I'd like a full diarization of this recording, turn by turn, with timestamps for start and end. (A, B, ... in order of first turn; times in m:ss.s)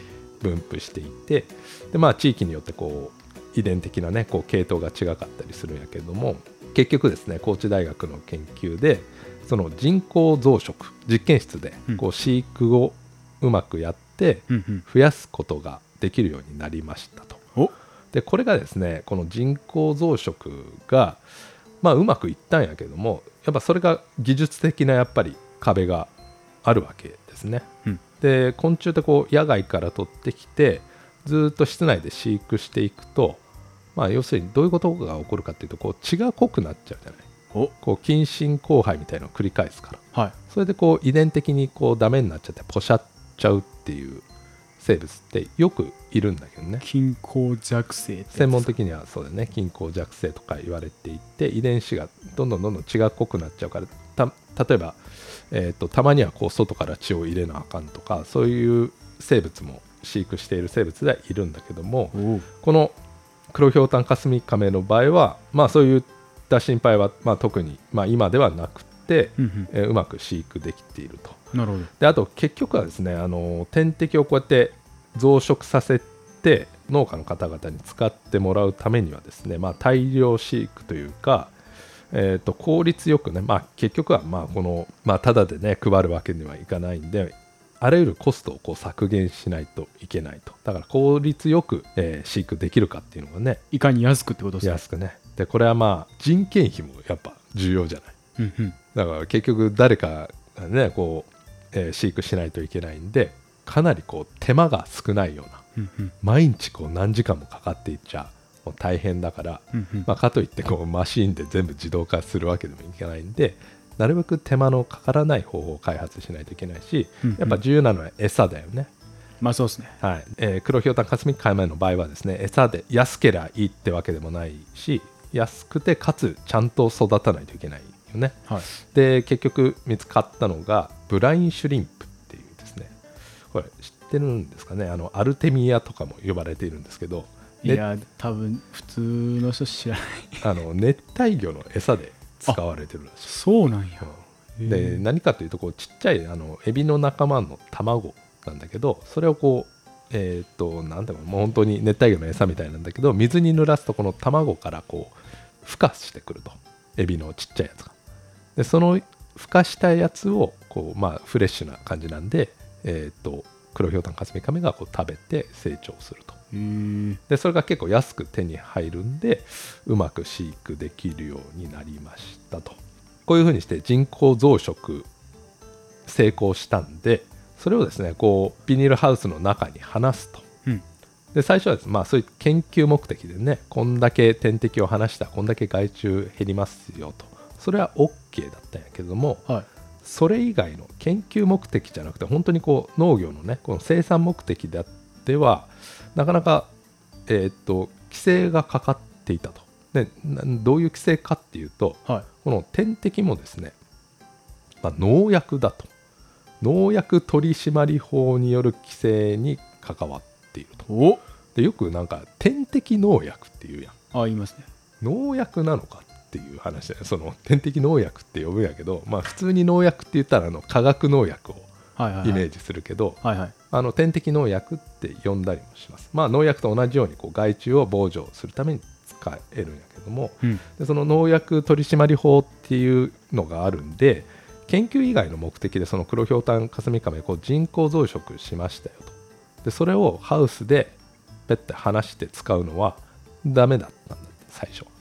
0:00.4-0:17.4 A
0:14.5-0:14.8 B
0:18.1-0:21.2 A
0:21.8-0:26.1 A
0:26.6-0:27.7 A
0:28.2-0:33.4 A
0:34.0-0:37.3 A
0:37.8-0:44.2 A
0:44.8-0:46.8 A
0:46.8-0:48.8 B
0:48.3-0:55.0 A
0:55.5-1:03.0 A
1:02.1-1:02.5 B
1:03.5-1:11.4 A
1:09.4-1:09.7 B
1:11.5-1:11.9 B
1:12.0-1:21.5 A
1:22.1-1:33.6 A
1:33.7-1:34.8 B
1:34.6-1:38.2 A
1:38.4-1:38.8 B
1:38.9-1:45.6 A
1:45.8-1:46.1 B
1:46.2-1:58.9 A
1:49.7-1:50.1 B
1:57.2-1:57.6 B
1:59.4-2:00.0 B
2:00.0-2:12.9 A
2:13.5-2:17.8 A
2:17.6-2:20.5 B
2:20.4-2:23.3 A
2:23.2-2:25.0 B
2:24.6-2:38.0 A
2:38.6-2:46.4 A
2:46.5-2:47.2 B
2:47.3-2:55.1 A
2:56.1-3:00.4 A
3:01.3-3:09.4 A
3:10.0-3:16.7 A
3:17.3-3:23.8 A
3:24.8-3:25.9 A
3:26.6-3:30.9 A
3:30.9-3:31.2 B
3:31.6-3:34.0 A
3:34.1-3:34.7 B
3:35.0-3:41.7 A
3:42.0-3:42.4 B
3:42.2-3:43.2 A
3:43.2-3:43.5 B
3:43.7-4:01.0 A
4:01.5-4:04.9 A